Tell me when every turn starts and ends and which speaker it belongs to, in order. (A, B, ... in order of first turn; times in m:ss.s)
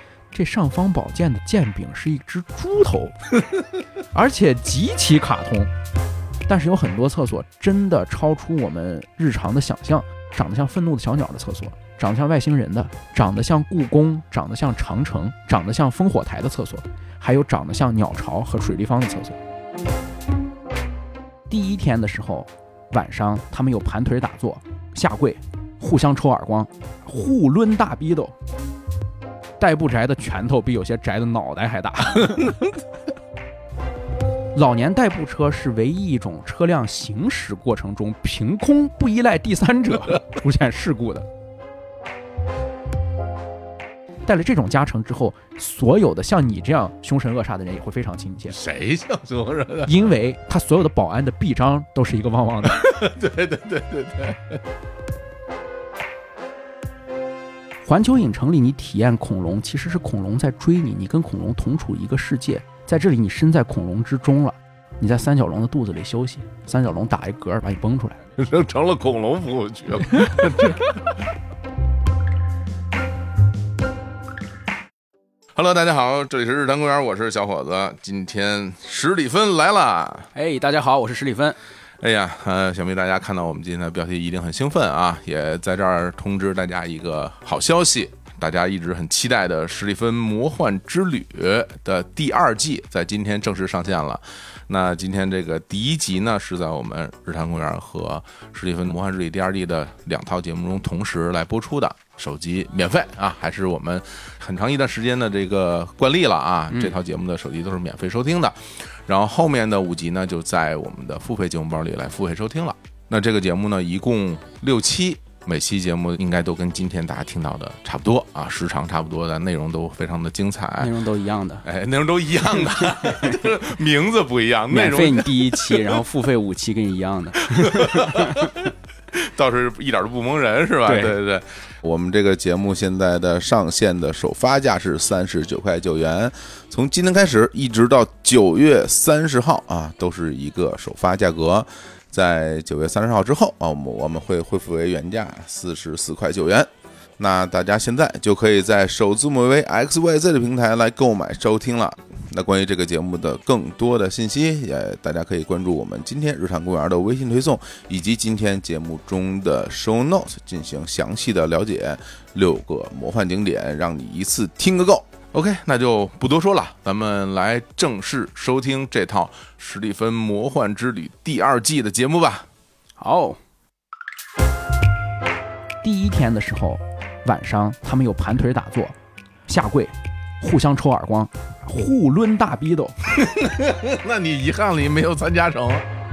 0:00.3-0:03.2 A
0:04.1-0:05.7 A
0:06.5-0:19.4 A
0:21.5-0:28.3 A
0:29.6-0:32.6 A
0:34.5-0:41.3 A
0:44.2-0:48.6 A
0:48.5-0:50.1 B
0:49.8-0:52.8 A
0:52.6-0:54.6 B
0:57.8-1:08.2 A
1:08.4-1:11.3 B
1:15.5-1:20.3 B
1:20.3-1:21.6 A
1:22.0-2:01.0 B
2:00.8-2:01.6 A
2:01.6-2:06.0 B
2:02.5-2:03.4 A
2:04.7-2:08.6 A
2:07.4-2:11.4 B
2:10.8-2:11.1 A
2:11.8-2:26.7 C
2:27.2-2:45.0 C
2:45.3-2:52.5 B
2:53.0-2:53.4 A
2:55.8-2:59.0 A
2:59.5-3:02.9 A
3:03.1-3:05.8 B